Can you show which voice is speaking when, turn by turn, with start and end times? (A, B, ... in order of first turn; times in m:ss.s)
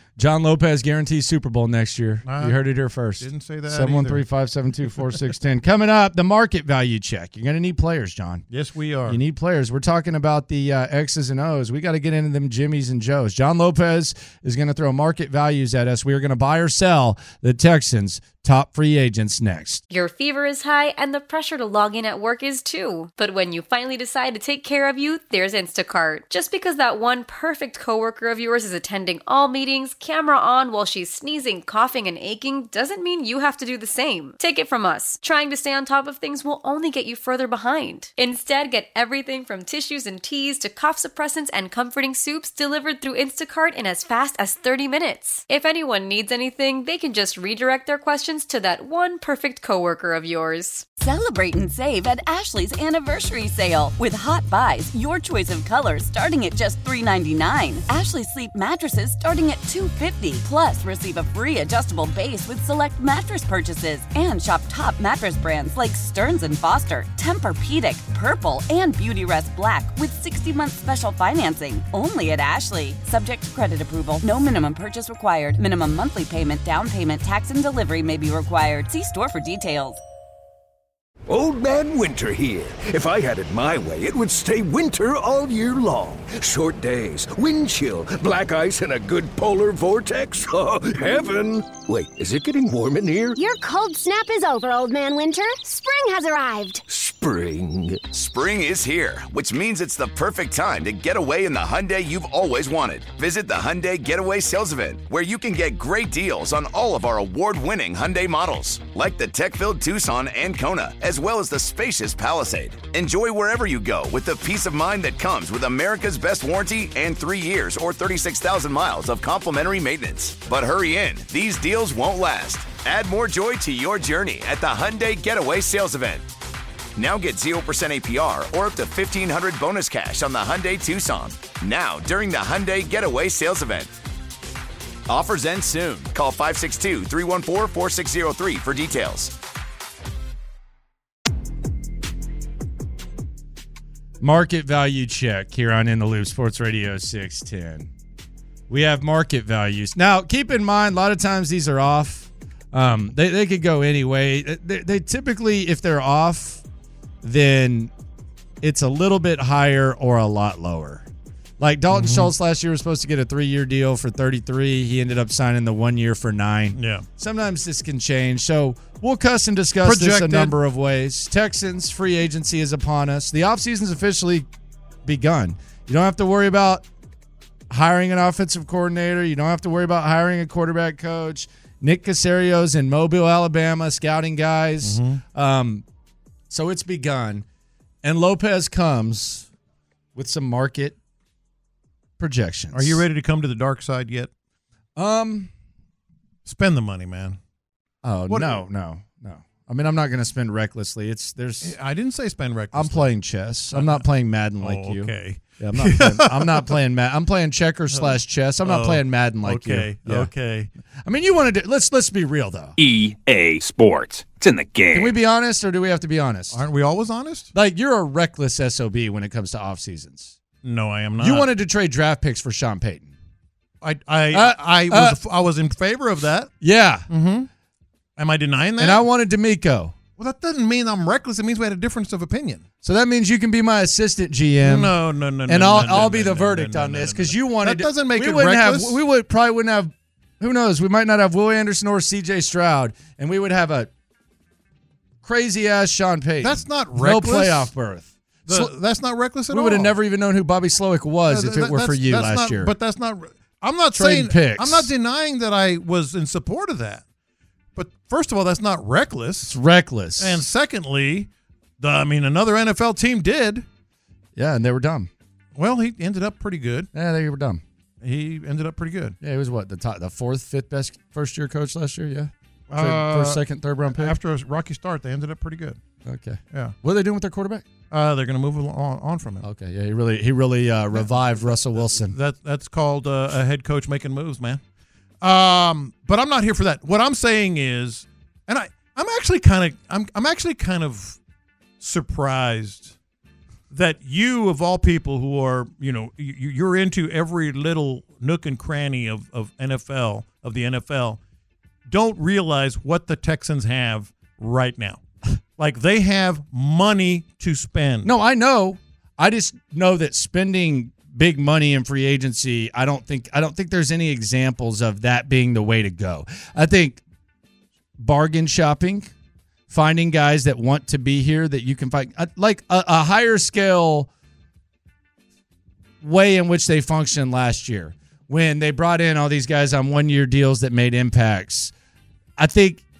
0:00.2-0:08.4 A
0:02.2-0:02.6 B
0:03.2-0:04.2 B
0:08.5-0:09.2 B
0:09.1-0:19.8 A
0:19.9-0:50.9 C
0:51.0-1:20.0 D
1:21.3-1:33.4 E
1:33.4-1:36.8 F
1:36.9-1:38.1 E
1:38.1-2:06.3 G
2:07.0-2:14.0 G
2:15.1-2:19.3 G
2:24.2-2:27.9 A
2:28.7-2:36.6 A
2:37.2-2:37.9 A
2:38.6-2:41.0 A
2:41.6-2:54.5 A
2:41.9-2:42.3 B
2:46.8-2:47.0 B
2:49.8-2:50.6 B
2:55.0-2:56.8 A
2:57.7-3:05.8 A
3:04.8-3:05.2 B
3:06.5-3:07.4 A
3:08.0-3:09.5 A
3:10.1-3:11.0 A
3:12.2-3:13.0 A
3:12.7-3:14.3 B
3:15.0-3:15.5 A
3:16.4-3:17.4 B
3:18.0-3:21.8 A
3:18.3-3:18.6 B
3:21.6-3:23.1 B
3:22.7-3:30.3 A
3:23.7-3:24.0 B
3:24.6-3:26.8 B
3:27.9-3:30.7 B
3:31.0-3:32.8 A
3:32.8-3:35.1 H
3:34.9-3:36.6 A
3:36.5-3:37.5 B
3:37.5-3:40.4 A
3:40.6-3:41.5 B
3:41.2-3:43.1 A
3:43.8-3:46.5 B
3:44.3-3:45.2 A
3:46.6-3:47.0 A
3:47.1-3:47.5 B
3:48.2-3:49.0 B
3:48.8-3:50.0 A
3:50.2-3:52.6 B
3:52.8-3:55.0 A
3:54.6-3:59.0 B
3:55.5-4:03.9 A
4:05.2-4:08.7 A
4:06.4-4:07.7 B
4:08.4-4:09.9 B
4:09.5-4:12.7 A
4:11.3-4:17.0 B
4:13.9-4:14.9 A
4:17.8-4:19.5 B
4:19.4-4:20.4 A
4:20.2-4:21.3 B
4:21.8-4:23.6 B
4:24.4-4:25.1 A
4:25.6-4:26.9 B
4:26.9-4:27.6 A
4:28.0-4:29.2 B
4:29.2-4:34.2 A
4:32.7-4:35.8 B
4:36.0-4:37.6 A
4:37.9-4:39.4 B
4:39.4-4:42.2 A
4:40.9-4:44.6 B
4:45.2-4:51.2 B
4:51.8-4:53.0 B
4:53.7-5:01.2 B
5:01.9-5:05.0 B
5:05.6-5:08.1 B
5:08.0-5:17.0 A
5:18.0-5:19.1 A
5:19.7-5:24.1 A
5:26.0-5:31.7 A
5:32.4-5:32.8 A